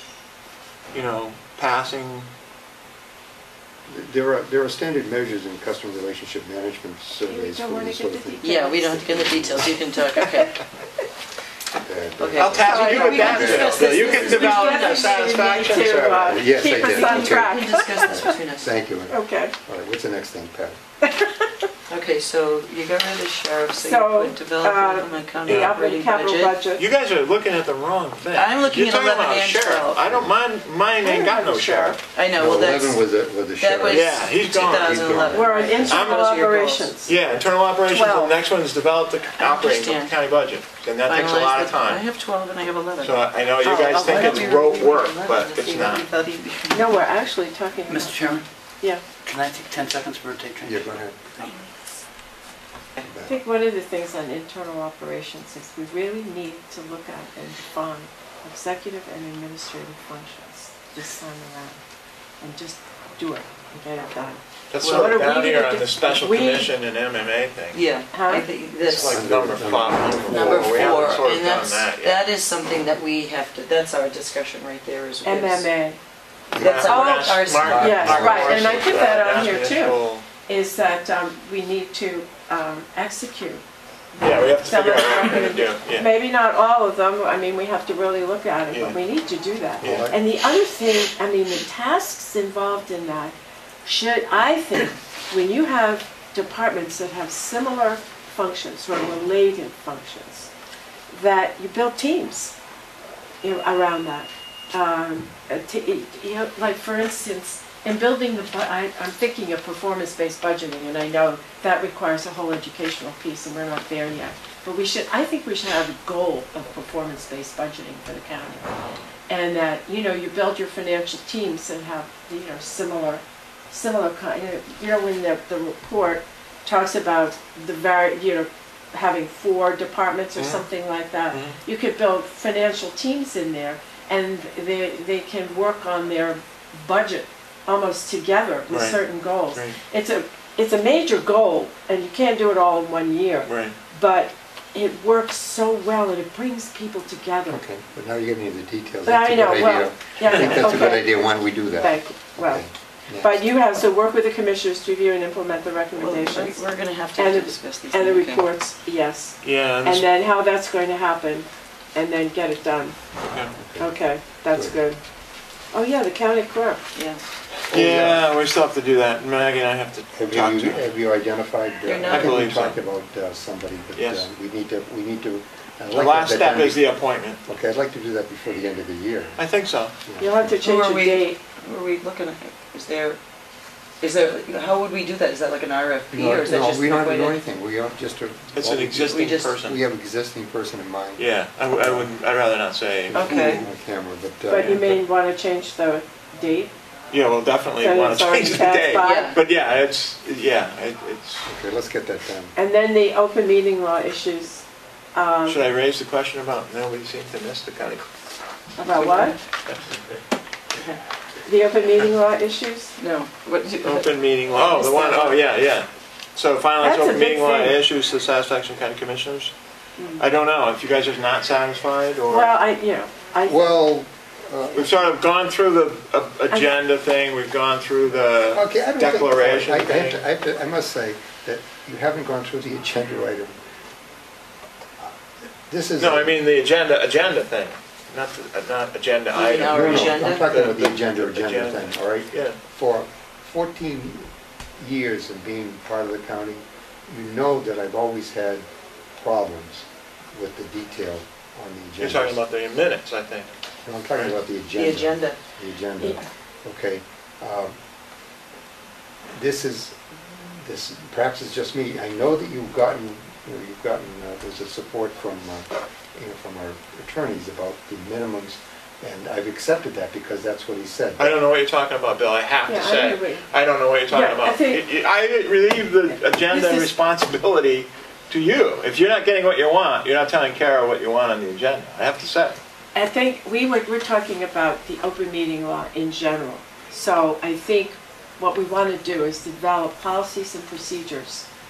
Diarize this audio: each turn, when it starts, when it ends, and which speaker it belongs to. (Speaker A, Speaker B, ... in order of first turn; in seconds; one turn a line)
Speaker A: 0.9-2.3
Speaker B: 3.9-9.8
Speaker C: 7.2-9.1
Speaker D: 8.4-10.6
Speaker C: 10.2-10.5
Speaker B: 11.7-14.6
Speaker D: 12.2-15.1
Speaker A: 12.4-16.2
Speaker C: 12.6-18.3
Speaker B: 16.1-20.8
Speaker D: 16.7-18.7
Speaker C: 19.1-19.5
Speaker C: 21.0-21.6
Speaker D: 21.9-26.6
Speaker C: 23.8-26.8
Speaker A: 25.4-25.7
Speaker A: 26.8-32.0
Speaker D: 28.3-30.1
Speaker B: 30.1-30.3
Speaker C: 31.0-32.0
Speaker D: 32.1-33.0
Speaker B: 32.4-36.0
Speaker D: 33.6-36.9
Speaker A: 33.9-35.0
Speaker C: 35.3-37.2
Speaker A: 35.9-36.2
Speaker A: 37.0-42.0
Speaker D: 37.9-38.4
Speaker D: 39.4-40.1
Speaker D: 41.1-47.0
Speaker A: 43.0-46.0
Speaker C: 46.7-49.0
Speaker E: 47.9-48.4
Speaker D: 48.1-48.4
Speaker E: 49.2-51.5
Speaker B: 50.6-51.2
Speaker B: 53.0-53.4
Speaker C: 53.2-61.8
Speaker C: 62.4-66.7
Speaker A: 64.7-67.8
Speaker D: 64.8-65.1
Speaker D: 67.7-69.2
Speaker C: 68.1-68.5
Speaker A: 68.8-72.2
Speaker B: 68.9-71.3
Speaker D: 70.3-75.7
Speaker C: 75.2-76.0
Speaker B: 76.5-79.2
Speaker D: 76.6-78.0
Speaker A: 76.7-80.3
Speaker C: 76.7-83.6
Speaker C: 84.1-100.5
Speaker A: 84.2-86.0
Speaker B: 89.8-90.2
Speaker C: 101.1-102.5
Speaker C: 103.4-118.7
Speaker C: 119.3-147.6
Speaker A: 138.7-139.0
Speaker A: 143.4-143.7
Speaker B: 147.5-153.4
Speaker C: 149.1-152.6
Speaker C: 153.2-163.0
Speaker D: 156.0-158.4
Speaker A: 159.4-160.1
Speaker B: 163.6-163.9
Speaker C: 163.8-165.0
Speaker B: 164.5-164.8
Speaker C: 165.7-166.8
Speaker D: 166.9-167.2
Speaker B: 167.7-168.3
Speaker A: 167.7-170.8
Speaker B: 170.1-176.9
Speaker D: 171.8-172.7
Speaker A: 172.1-172.8
Speaker A: 173.9-174.2
Speaker A: 175.9-177.4
Speaker B: 177.4-179.4
Speaker A: 179.4-179.9
Speaker B: 180.0-180.6
Speaker C: 180.2-181.4
Speaker D: 180.6-183.2
Speaker D: 184.0-187.4
Speaker B: 186.1-192.1
Speaker A: 188.5-189.7
Speaker D: 189.1-189.6
Speaker A: 191.2-193.3
Speaker B: 193.1-195.0
Speaker D: 193.1-193.6
Speaker C: 194.5-196.7
Speaker A: 197.1-201.5
Speaker C: 197.8-199.3
Speaker D: 199.0-199.4
Speaker B: 201.4-202.5
Speaker C: 202.5-205.7
Speaker A: 205.4-208.1
Speaker D: 208.8-209.4
Speaker C: 208.8-209.3
Speaker C: 211.4-212.9
Speaker D: 213.0-215.4
Speaker A: 213.8-219.5
Speaker C: 216.8-217.8
Speaker C: 220.0-220.2
Speaker A: 220.2-222.5
Speaker C: 222.3-223.7
Speaker B: 223.4-225.0
Speaker A: 224.8-230.2
Speaker B: 228.5-233.5
Speaker B: 235.7-236.3
Speaker A: 236.0-242.6
Speaker D: 239.3-240.5
Speaker B: 239.7-248.7
Speaker B: 249.2-252.4
Speaker A: 252.0-253.5
Speaker B: 253.8-257.7
Speaker D: 254.8-255.4
Speaker B: 259.4-271.3
Speaker A: 271.2-282.6
Speaker C: 272.6-273.5
Speaker C: 274.1-274.8
Speaker C: 276.1-276.9
Speaker C: 282.9-291.5